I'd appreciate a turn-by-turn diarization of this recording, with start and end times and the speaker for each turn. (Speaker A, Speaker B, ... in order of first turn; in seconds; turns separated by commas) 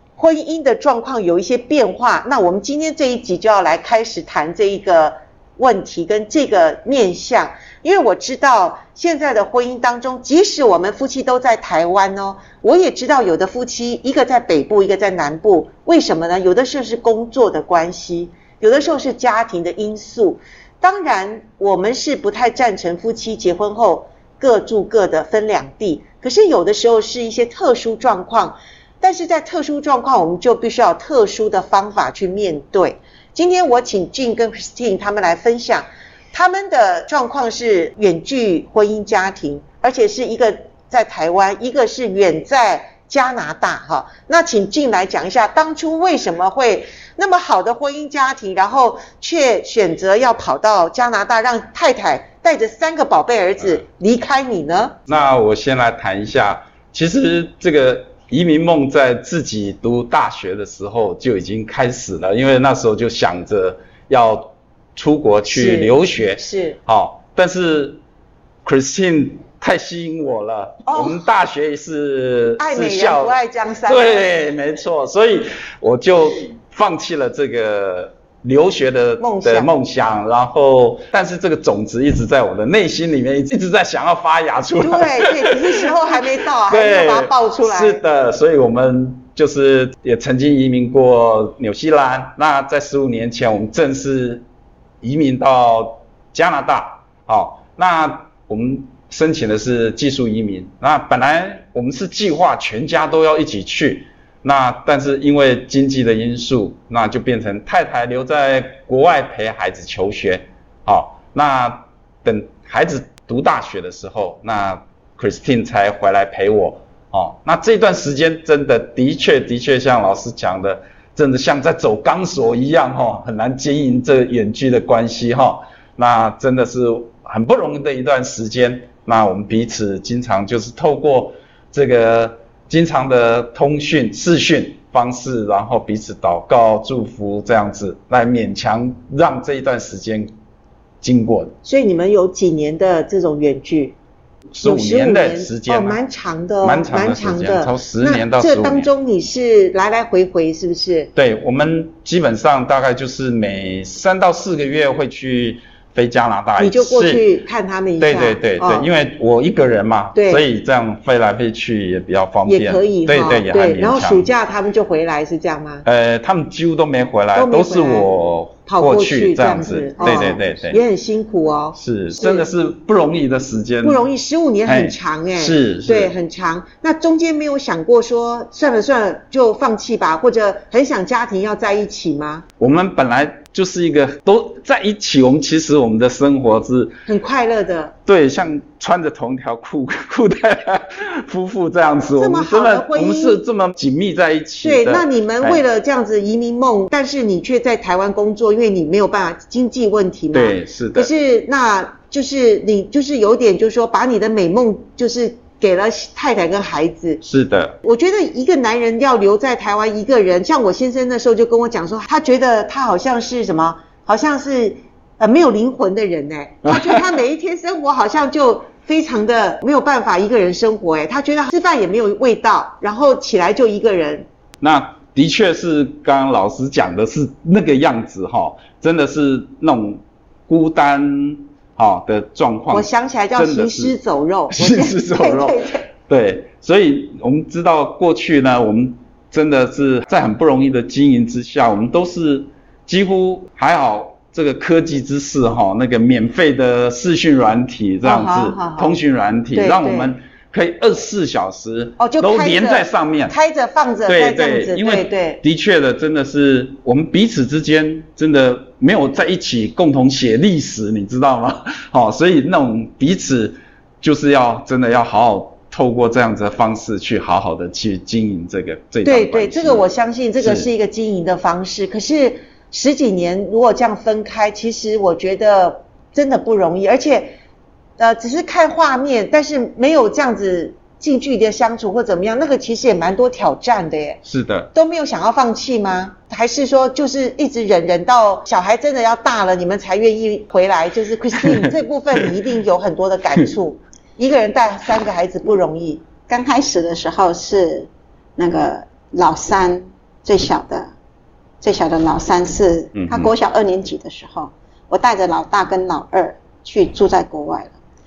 Speaker A: 0.2-55.0, Speaker B: 55.1-68.0, Speaker A: 65.5-66.8, Speaker B: 68.6-85.6, Speaker C: 70.9-71.2, Speaker A: 72.6-74.3, Speaker A: 79.2-79.7, Speaker A: 84.8-88.0, Speaker B: 86.7-94.4, Speaker B: 95.0-140.3, Speaker B: 141.0-141.5, Speaker A: 141.6-143.9, Speaker B: 144.5-146.0, Speaker A: 144.6-151.1, Speaker B: 146.6-148.9, Speaker B: 151.1-157.3, Speaker A: 156.6-158.9, Speaker B: 158.0-164.3, Speaker A: 160.1-160.4, Speaker A: 162.4-165.8, Speaker B: 165.8-170.8, Speaker A: 167.3-172.5, Speaker B: 171.7-174.0, Speaker A: 173.8-182.4, Speaker B: 174.7-176.1, Speaker B: 182.6-186.9, Speaker A: 187.1-187.9, Speaker B: 188.1-195.6, Speaker A: 192.2-193.4, Speaker A: 194.6-207.2, Speaker B: 200.3-201.1, Speaker B: 207.2-207.7, Speaker A: 207.8-224.2, Speaker B: 216.7-217.0, Speaker B: 224.6-233.9, Speaker A: 232.7-235.2, Speaker B: 234.5-253.3, Speaker C: 235.0-235.8, Speaker A: 248.0-249.0, Speaker A: 249.5-250.2, Speaker A: 252.0-255.4, Speaker B: 254.1-269.8, Speaker A: 269.0-277.4, Speaker B: 270.4-270.7, Speaker A: 278.0-284.2, Speaker B: 284.2-284.7, Speaker A: 284.7-296.0, Speaker C: 296.3-300.9, Speaker C: 301.6-307.8, Speaker B: 302.9-303.3